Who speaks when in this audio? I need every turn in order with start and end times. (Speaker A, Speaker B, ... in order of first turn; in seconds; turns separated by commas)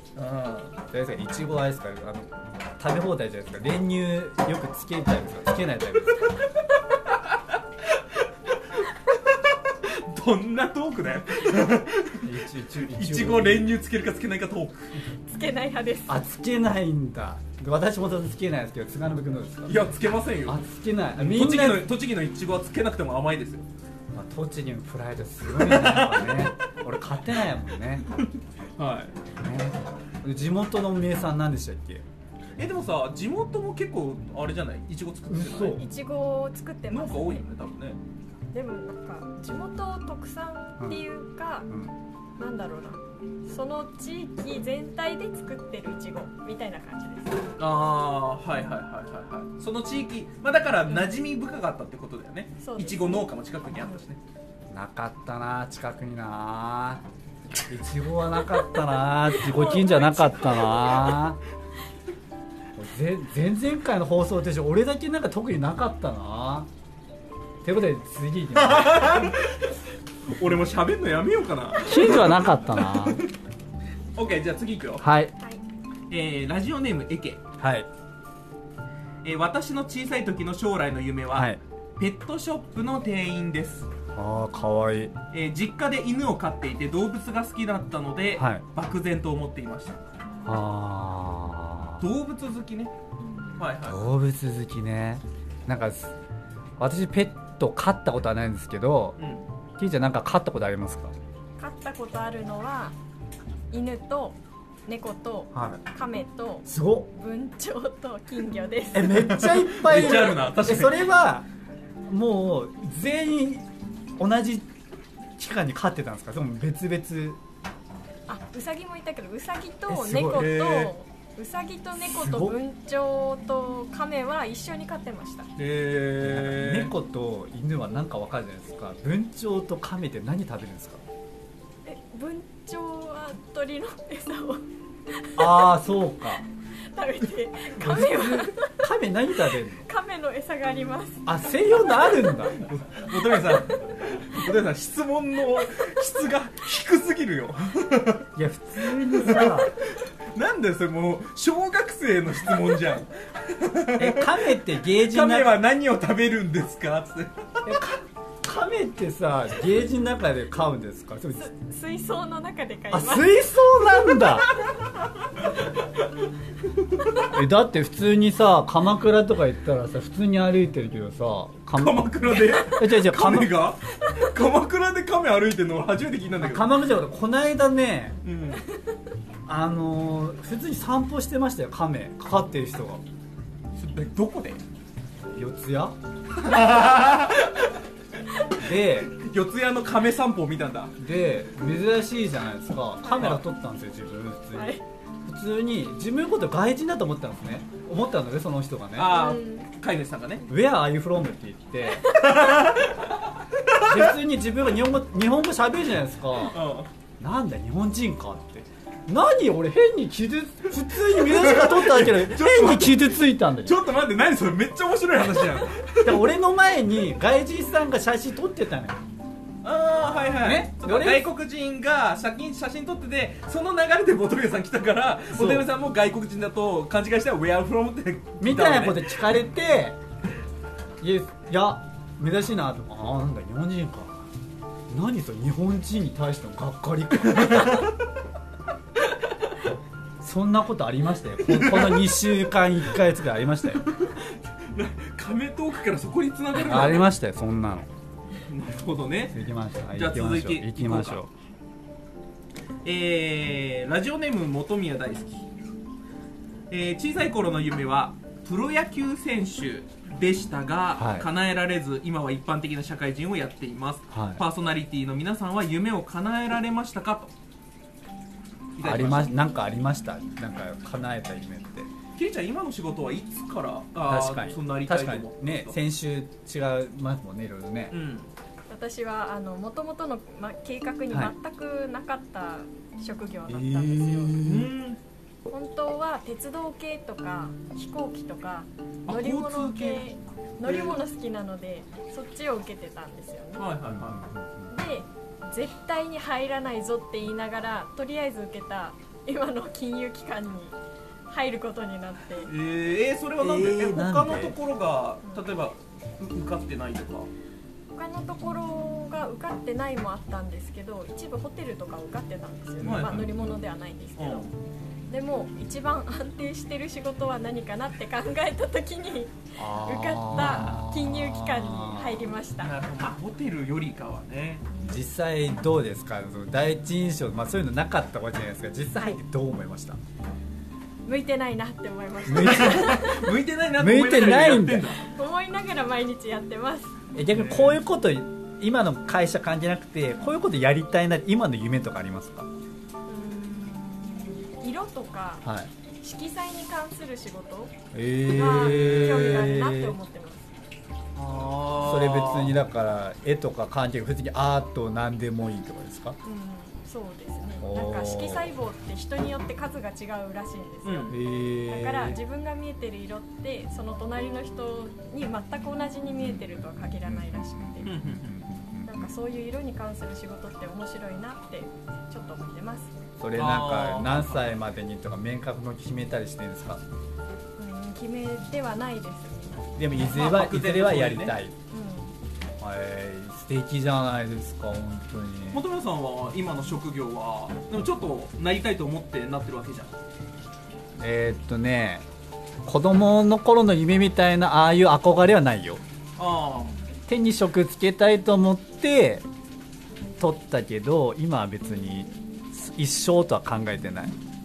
Speaker A: 0.1-0.8, Speaker B: 0.9-6.3, Speaker A: 7.8-12.3, Speaker B: 12.2-13.7, Speaker A: 12.8-14.9, Speaker C: 15.3-16.2, Speaker B: 16.1-19.9, Speaker A: 19.7-20.6, Speaker B: 20.4-21.9, Speaker A: 21.1-23.6, Speaker B: 24.1-28.1, Speaker A: 25.5-26.5, Speaker A: 28.8-29.1, Speaker B: 29.4-32.0, Speaker A: 32.6-35.9, Speaker B: 35.3-35.8, Speaker C: 35.7-37.4, Speaker A: 36.9-38.0, Speaker C: 38.5-41.7, Speaker B: 41.7-41.9, Speaker C: 42.4-47.5, Speaker A: 47.6-54.2, Speaker C: 50.9-51.1, Speaker C: 52.6-54.0, Speaker B: 54.7-57.0, Speaker B: 57.7-61.4, Speaker C: 59.3-61.2, Speaker B: 62.7-66.7, Speaker B: 67.6-69.3, Speaker A: 68.6-69.7, Speaker A: 70.3-73.3, Speaker B: 71.8-73.2, Speaker A: 74.2-75.0, Speaker B: 75.0-75.3, Speaker A: 76.1-77.4, Speaker B: 77.6-77.9, Speaker A: 79.2-83.9, Speaker B: 81.3-81.6, Speaker B: 84.1-85.1, Speaker A: 85.3-90.0, Speaker B: 88.4-88.6, Speaker B: 90.4-92.0, Speaker A: 92.0-92.9, Speaker C: 93.2-93.6, Speaker A: 93.6-94.0, Speaker B: 93.8-96.1, Speaker B: 96.8-99.2, Speaker A: 99.2-99.5, Speaker B: 99.8-101.1, Speaker C: 101.6-102.9, Speaker C: 103.7-109.3, Speaker B: 105.5-105.8, Speaker B: 106.6-107.1, Speaker B: 108.9-111.5, Speaker A: 109.0-111.0, Speaker B: 112.1-114.7, Speaker B: 115.4-117.4, Speaker C: 118.3-125.5, Speaker B: 119.9-120.5, Speaker A: 120.3-120.9, Speaker B: 122.0-122.6, Speaker A: 125.6-126.9, Speaker B: 126.2-131.0, Speaker C: 131.8-134.6, Speaker C: 135.2-135.7, Speaker B: 135.4-136.4, Speaker C: 136.9-138.7, Speaker B: 137.8-139.9, Speaker C: 139.8-142.3, Speaker B: 141.2-142.7, Speaker A: 142.4-148.2, Speaker B: 148.3-149.7, Speaker A: 149.0-149.7, Speaker A: 150.3-157.8, Speaker B: 154.0-155.6, Speaker B: 157.6-161.5, Speaker C: 161.3-163.3, Speaker B: 162.9-164.5, Speaker B: 167.3-173.5, Speaker A: 171.8-176.7, Speaker B: 176.4-178.2, Speaker A: 178.2-178.6, Speaker B: 179.5-183.0, Speaker A: 183.7-184.6, Speaker B: 185.2-186.0, Speaker A: 186.4-187.7, Speaker B: 188.5-189.2, Speaker A: 189.1-190.9, Speaker B: 191.0-199.2, Speaker C: 193.0-193.4, Speaker C: 194.5-194.8, Speaker A: 198.9-200.5, Speaker C: 199.0-199.7, Speaker B: 200.5-202.7, Speaker A: 202.2-204.1, Speaker B: 203.8-206.6, Speaker A: 206.5-206.9, Speaker B: 207.2-213.8, Speaker A: 211.0-216.3, Speaker B: 216.0-219.0, Speaker A: 219.6-229.2, Speaker B: 220.4-221.3, Speaker B: 225.3-225.7, Speaker B: 228.4-230.0, Speaker B: 231.0-234.3, Speaker B: 234.9-237.9, Speaker B: 240.2-243.8, Speaker A: 241.5-242.1, Speaker A: 243.8-247.1, Speaker B: 246.5-247.9, Speaker A: 248.5-249.3, Speaker B: 249.3-251.3, Speaker A: 249.9-251.2, Speaker A: 252.8-255.4, Speaker A: 256.7-267.3, Speaker B: 260.9-261.3, Speaker B: 264.1-264.4, Speaker A: 268.8-269.4, Speaker B: 268.8-271.9, Speaker A: 272.1-275.8, Speaker B: 274.1-277.9, Speaker A: 277.9-278.3, Speaker C: 278.7-284.4, Speaker B: 283.5-284.7, Speaker A: 284.4-285.0, Speaker C: 285.5-293.7, Speaker A: 289.1-290.1, Speaker A: 290.6-291.0, Speaker A: 293.6-294.2, Speaker B: 293.9-294.7, Speaker C: 294.7-300.8, Speaker C: 301.3-302.5, Speaker A: 302.4-307.3, Speaker B: 303.4-304.6, Speaker C: 307.9-314.5, Speaker B: 312.8-313.5, Speaker A: 312.8-313.3, Speaker A: 314.2-314.5, Speaker C: 315.1-322.7, Speaker B: 319.6-322.3, Speaker A: 322.6-324.6, Speaker B: 324.8-330.0, Speaker C: 331.1-333.3, Speaker B: 332.3-333.1, Speaker A: 332.3-335.0, Speaker B: 333.8-334.9, Speaker C: 335.0-337.0, Speaker B: 337.1-342.5, Speaker A: 337.3-337.8, Speaker C: 343.1-345.4, Speaker B: 345.4-345.7, Speaker C: 346.0-350.5, Speaker B: 347.9-349.9, Speaker A: 348.5-349.1, Speaker A: 351.1-352.6, Speaker B: 351.8-356.2, Speaker C: 356.2-368.0, Speaker B: 357.6-358.5, Speaker A: 360.8-361.1, Speaker B: 361.1-362.2, Speaker B: 366.2-369.1, Speaker A: 367.8-368.3, Speaker C: 368.9-372.9, Speaker B: 373.2-376.8, Speaker A: 373.3-374.6, Speaker C: 377.6-379.6, Speaker B: 379.8-381.5, Speaker A: 380.1-381.4, Speaker C: 381.7-382.1, Speaker B: 382.6-385.6, Speaker A: 385.5-389.9, Speaker B: 391.0-392.1, Speaker B: 392.6-395.8, Speaker A: 396.2-396.8, Speaker B: 397.1-399.2, Speaker B: 400.2-404.1